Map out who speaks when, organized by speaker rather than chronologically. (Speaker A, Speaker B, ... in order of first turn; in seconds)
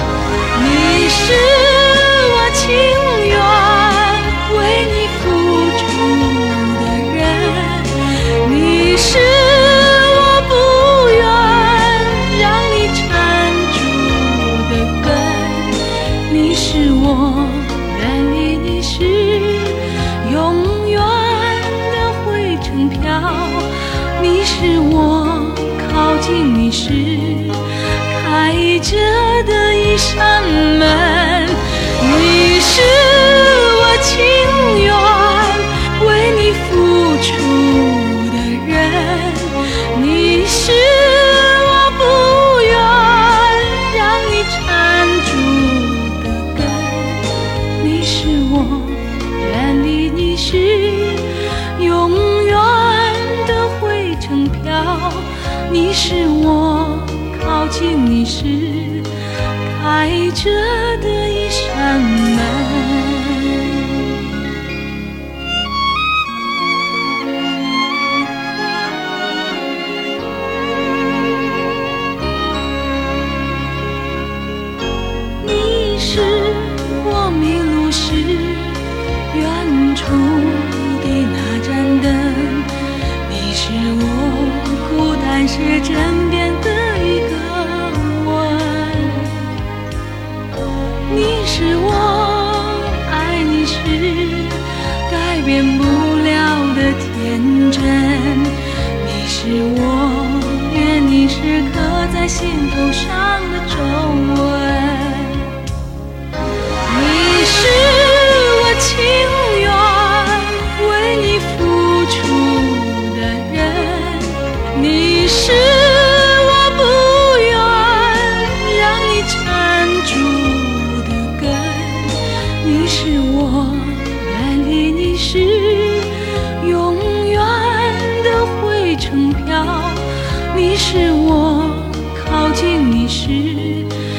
Speaker A: 0.5-59.1, 59.6-63.5, 75.4-78.8, 79.3-82.7, 83.2-89.4, 91.1-105.5, 106.9-133.9